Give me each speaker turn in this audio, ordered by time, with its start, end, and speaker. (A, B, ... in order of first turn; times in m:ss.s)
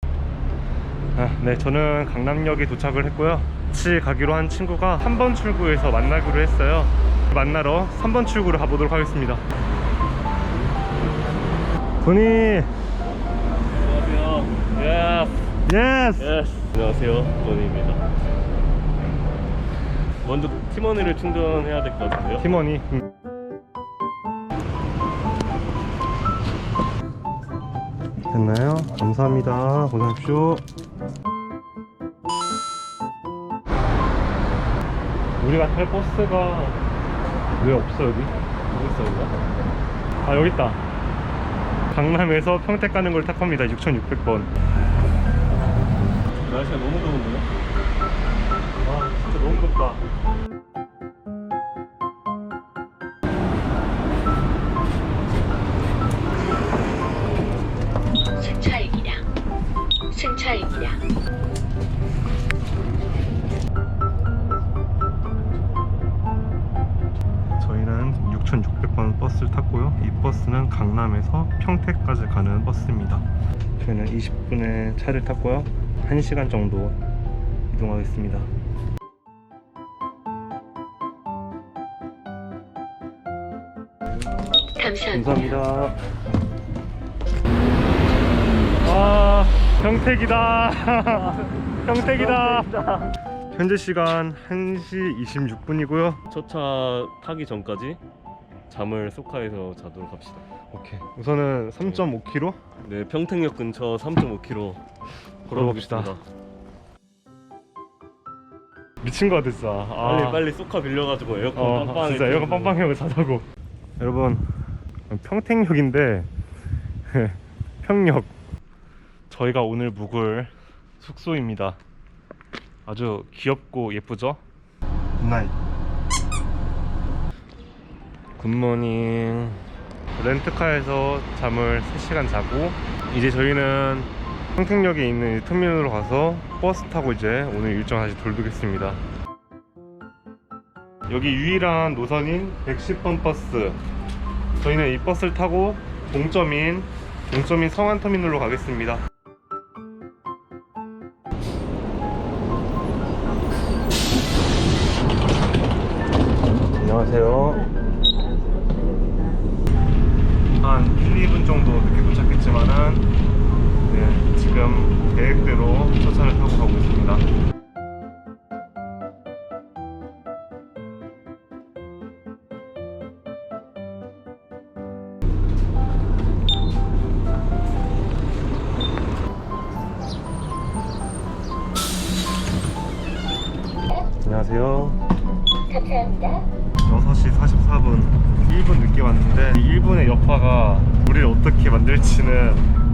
0:01.2-0:09.4 A
0:12.0-0:12.7 A
0:13.7-0:15.5 B
0:15.7-0:16.3 A
0:16.2-0:18.0 B
0:20.2-0:22.5 B
0:22.4-0:23.0 A
0:28.3-0:30.6 A
0:35.4-0:36.8 A
0:37.6-0:38.3 A
0:38.7-0:39.3 B
0:40.2-0:40.8 A
0:41.9-0:44.5 A
0:46.4-0:47.5 B
0:48.8-0:50.0 A
0:58.4-0:59.2 C
1:00.1-1:01.0 C
1:07.5-1:13.2 A
1:13.8-1:17.0 A
1:17.7-1:18.5 A
1:24.8-1:25.4 C
1:25.0-1:26.0 A
1:28.8-1:33.0 A
1:32.5-1:33.0 B
1:33.5-1:36.2 A
1:36.3-1:38.0 B
1:38.7-1:40.4 B
1:40.7-1:42.6 A
1:42.8-1:44.8 B
1:45.5-1:46.2 B
1:45.5-1:46.1 A
1:49.0-1:50.5 A
1:50.0-1:52.8 B
1:51.5-1:53.5 A
1:54.0-1:54.5 A
1:55.1-1:56.3 A
1:57.1-1:58.3 A
1:59.3-2:01.8 A
2:02.9-2:04.4 A
2:05.2-2:05.5 A
2:08.4-2:09.6 A
2:10.2-2:19.0 A
2:21.1-2:23.8 A
2:24.6-2:29.0 A
2:36.8-2:37.7 A
2:40.6-2:43.1 A
2:43.8-2:47.2 A
3:04.2-3:05.0 A
3:05.7-3:06.5 C
3:06.8-3:12.7 A